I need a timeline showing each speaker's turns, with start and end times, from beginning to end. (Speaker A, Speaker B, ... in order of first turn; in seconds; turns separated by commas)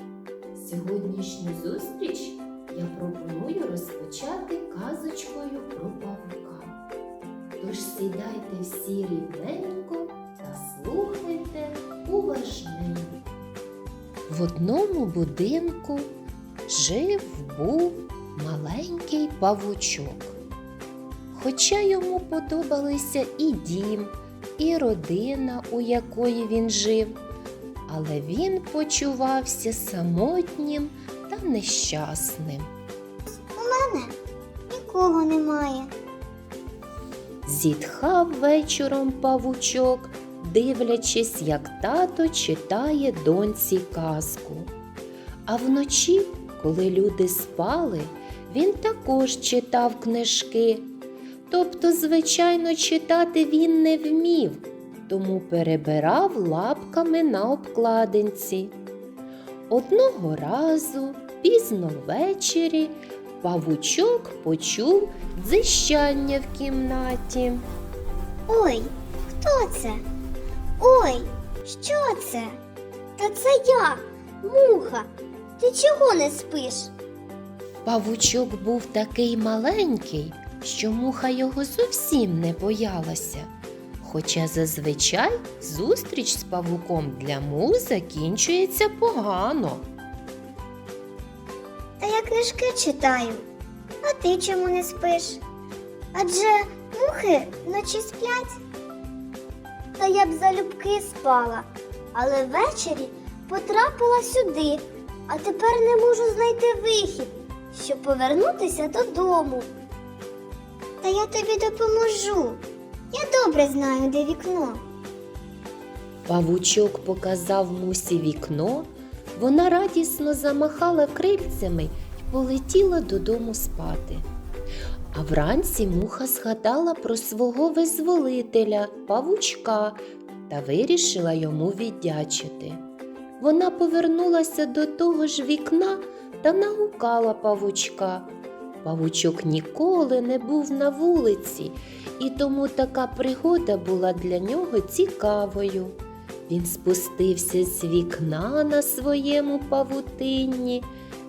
Speaker A: 0.5-6.8, Speaker A: 7.6-13.4, Speaker A: 14.3-16.1, Speaker A: 16.7-20.4, Speaker A: 21.3-27.2, Speaker A: 27.9-32.7, Speaker B: 33.3-34.1, Speaker B: 34.7-35.9, Speaker A: 37.5-44.7, Speaker A: 45.5-50.9, Speaker A: 51.5-58.8, Speaker A: 59.7-67.6, Speaker B: 68.5-70.0, Speaker B: 70.8-72.6, Speaker B: 73.2-76.9, Speaker A: 77.8-89.9, Speaker B: 92.0-93.5, Speaker B: 94.0-95.4, Speaker B: 96.1-98.6, Speaker B: 100.0-109.7, Speaker B: 111.0-114.8, Speaker A: 116.2-124.2, Speaker A: 125.1-132.8, Speaker A: 133.4-150.9